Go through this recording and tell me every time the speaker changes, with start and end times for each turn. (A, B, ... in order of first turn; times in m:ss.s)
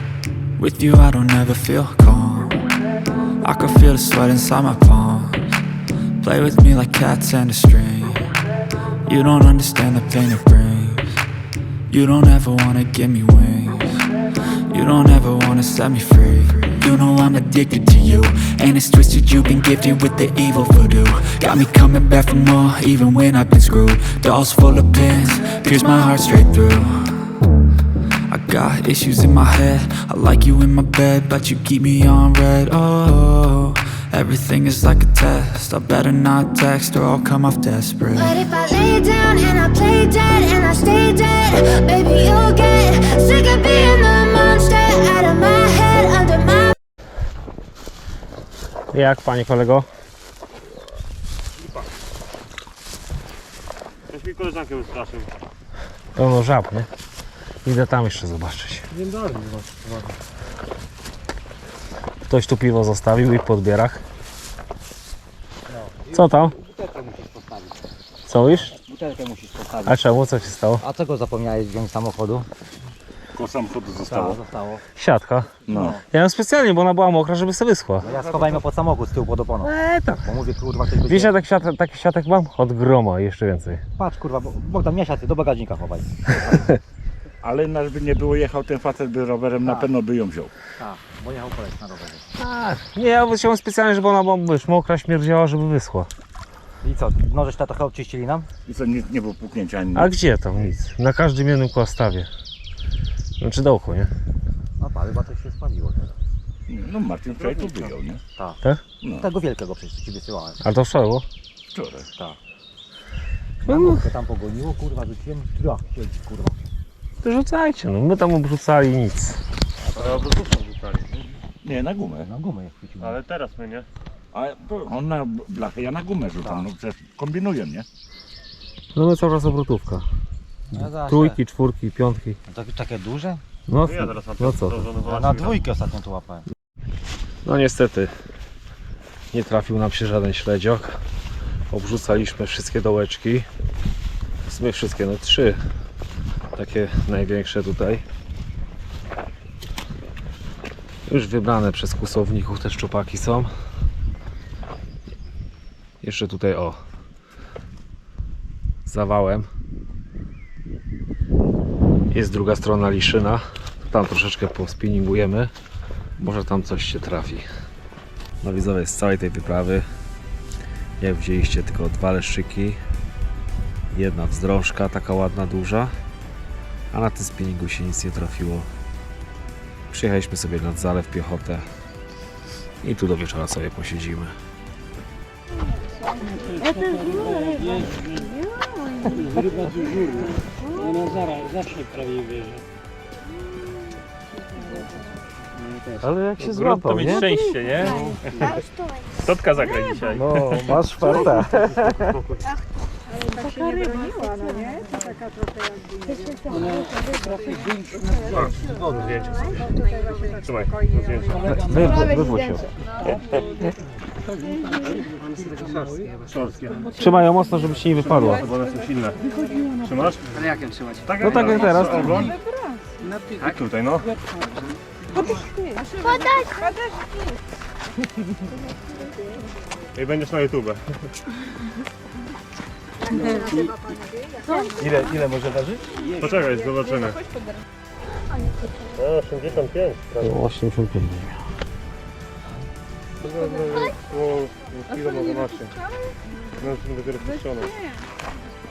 0:00.6-0:02.7 A
0:03.4-0:05.4 A
0:06.2-0:08.3 A
0:09.0-0:11.0 A
0:11.9-0:14.1 A
0:14.7-0:27.3 A
0:28.3-0:38.4 A
0:38.2-0:46.8 B
0:48.9-0:49.9 C
0:51.6-0:51.9 D
0:54.1-0:55.3 D
0:56.1-0:56.9 C
0:57.6-0:58.9 C
0:58.9-1:00.2 D
1:02.3-1:04.0 C
1:05.7-1:10.0 E
1:06.1-1:06.5 C
1:08.2-1:08.7 C
1:09.8-1:10.8 C
1:10.8-1:12.5 E
1:13.3-1:14.4 F
1:14.0-1:14.8 E
1:15.0-1:15.5 C
1:15.7-1:16.0 F
1:15.7-1:16.0 E
1:16.1-1:18.1 C
1:18.0-1:21.4 E
1:18.1-1:18.6 F
1:19.6-1:20.3 C
1:21.0-1:23.8 C
1:24.0-1:26.3 E
1:26.5-1:26.8 C
1:27.4-1:30.5 F
1:29.6-1:29.9 E
1:30.8-1:32.3 E
1:32.4-1:36.1 C
1:36.8-1:38.5 E
1:38.6-1:40.1 F
1:39.9-1:42.3 C
1:43.4-1:44.1 C
1:44.8-1:46.2 E
1:46.7-1:48.2 F
1:47.3-1:48.0 D
1:49.0-1:49.3 F
1:49.1-1:50.6 E
1:50.6-1:51.2 C
1:51.7-1:52.1 F
1:53.6-1:54.1 C
1:53.6-1:56.6 E
1:57.2-1:59.4 C
1:59.8-2:00.3 E
1:59.9-2:01.1 D
2:01.6-2:02.3 F
2:02.2-2:03.2 E
2:03.0-2:03.9 D
2:04.3-2:07.8 F
2:06.4-2:06.6 E
2:08.9-2:10.0 C
2:10.7-2:11.4 E
2:10.7-2:12.4 C
2:12.5-2:13.4 E
2:13.7-2:14.9 C
2:13.8-2:15.7 D
2:15.0-2:16.4 E
2:17.4-2:18.1 C
2:19.3-2:21.0 C
2:21.7-2:23.5 C
2:24.5-2:25.6 C
2:26.5-2:28.0 C
2:31.1-2:33.5 C
2:36.0-2:36.8 C
2:38.8-2:39.5 C
2:42.1-2:45.5 C
2:46.2-2:47.4 C
2:48.4-2:49.8 C
2:51.0-2:52.8 C
2:53.9-2:55.9 C
2:56.9-2:58.7 C
2:59.9-3:01.6 C
3:02.8-3:04.3 C
3:09.1-3:10.3 D
3:16.0-3:17.3 C
3:16.5-3:18.6 D
3:19.2-3:20.7 D
3:20.1-3:22.1 C
3:28.2-3:29.8 D
3:30.4-3:31.7 D
3:31.4-3:32.7 C
3:33.0-3:33.4 D
3:34.8-3:35.5 D
3:36.2-3:36.9 D
3:36.9-3:38.5 C
3:38.2-3:39.2 D
3:39.8-3:42.4 D
3:41.2-3:42.3 C
3:43.4-3:44.1 D
3:49.9-3:50.8 D
3:54.9-3:56.1 E
3:56.1-3:57.2 D
3:58.9-4:00.4 D
4:00.2-4:01.4 C
4:03.2-4:05.8 D
4:06.6-4:07.8 D